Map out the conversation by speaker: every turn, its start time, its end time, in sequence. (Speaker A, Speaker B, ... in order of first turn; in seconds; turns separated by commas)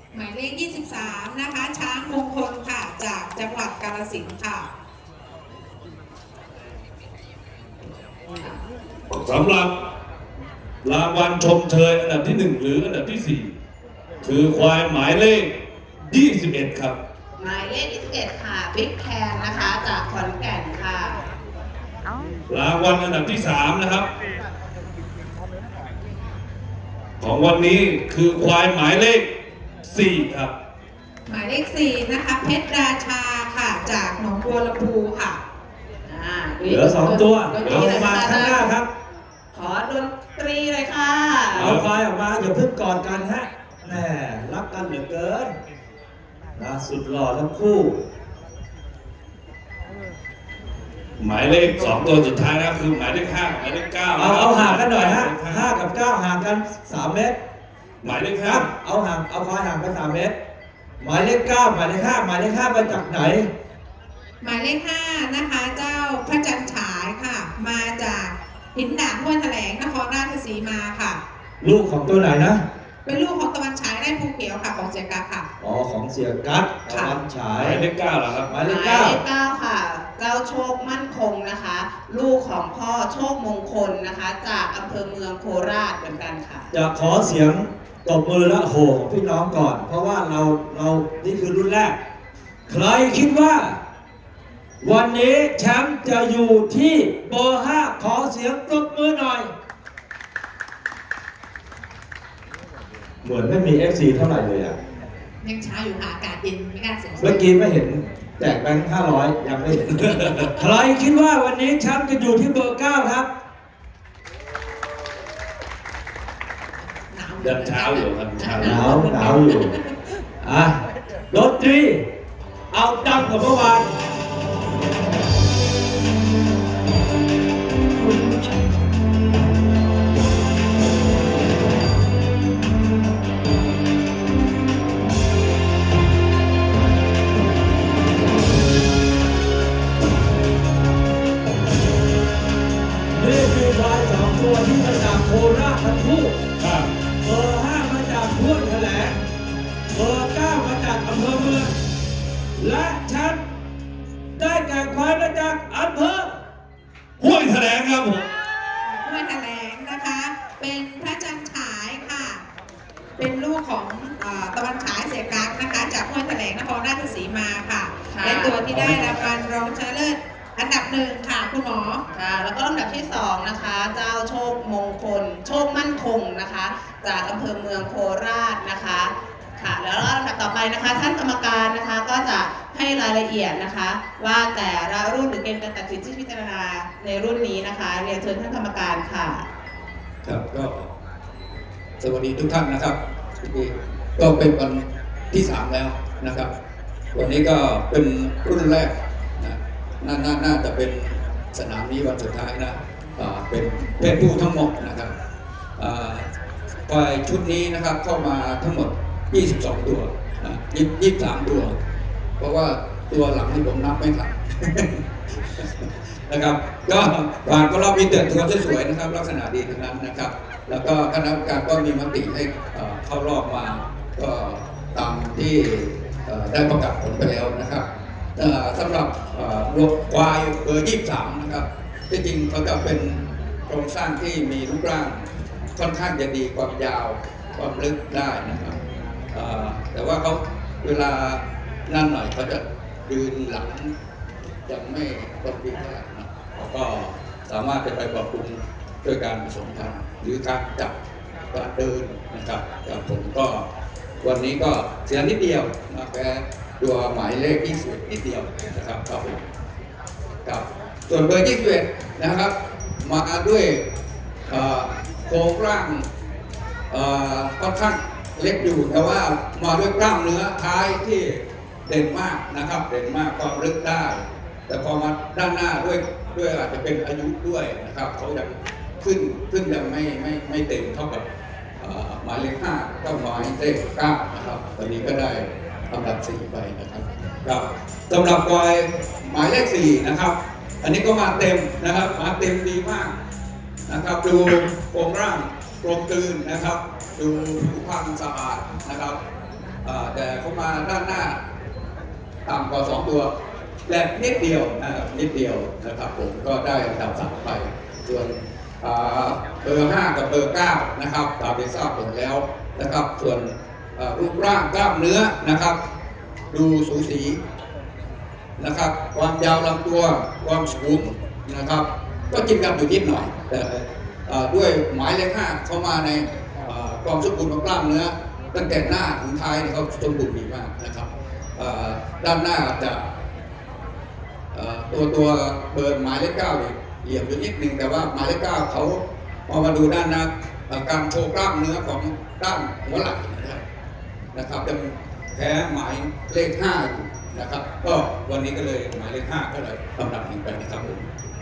Speaker A: 0.1-4.7, Speaker B: 9.1-9.7, Speaker B: 10.8-13.5, Speaker B: 14.2-15.6, Speaker B: 16.1-17.0, Speaker C: 17.4-21.2, Speaker B: 22.5-24.1, Speaker B: 27.2-29.3, Speaker B: 29.8-30.5, Speaker A: 31.3-35.4, Speaker C: 36.1-38.7, Speaker D: 36.6-38.9, Speaker A: 37.0-37.8, Speaker B: 37.6-37.9, Speaker C: 39.5-41.8, Speaker D: 41.5-45.5, Speaker B: 41.6-41.9, Speaker D: 46.6-48.0, Speaker B: 51.2-55.7, Speaker D: 54.2-57.4, Speaker B: 58.0-58.7, Speaker D: 58.4-60.4, Speaker D: 61.0-63.5, Speaker A: 64.4-71.2, Speaker D: 71.6-72.6, Speaker A: 73.0-75.5, Speaker D: 75.6-77.8, Speaker A: 76.9-77.1, Speaker B: 77.6-78.5, Speaker D: 78.5-79.2, Speaker C: 78.5-86.7, Speaker D: 86.7-92.0, Speaker D: 92.7-93.8, Speaker D: 94.8-99.5, Speaker D: 103.2-104.8, Speaker A: 105.4-107.5, Speaker D: 107.2-113.3, Speaker B: 109.9-110.5, Speaker A: 117.1-119.9, Speaker B: 117.4-118.9, Speaker D: 118.6-119.8, Speaker D: 120.4-122.0, Speaker D: 122.7-123.9, Speaker D: 143.1-146.4, Speaker B: 146.6-146.9, Speaker D: 147.2-149.2, Speaker D: 149.9-151.7, Speaker D: 152.6-153.4, Speaker D: 154.3-156.4, Speaker B: 157.2-158.3, Speaker A: 158.8-162.4, Speaker A: 163.2-172.0, Speaker C: 168.1-169.1, Speaker C: 172.1-189.4, Speaker E: 190.2-190.9, Speaker E: 192.0-196.5, Speaker E: 197.1-205.1, Speaker E: 205.8-206.3, Speaker E: 206.9-211.8, Speaker E: 212.4-227.8, Speaker E: 228.4-235.2, Speaker E: 235.8-238.8, Speaker E: 239.3-243.9, Speaker E: 244.7-250.9, Speaker E: 251.5-253.6, Speaker E: 254.2-259.4, Speaker E: 260.4-263.8, Speaker E: 264.5-266.0, Speaker E: 266.9-281.2, Speaker E: 281.8-293.1, Speaker E: 293.9-299.2, Speaker E: 299.8-301.4, Speaker E: 302.5-303.3, Speaker E: 303.9-315.8, Speaker E: 316.5-317.4, Speaker E: 318.6-333.0, Speaker E: 334.5-343.6, Speaker E: 344.3-351.0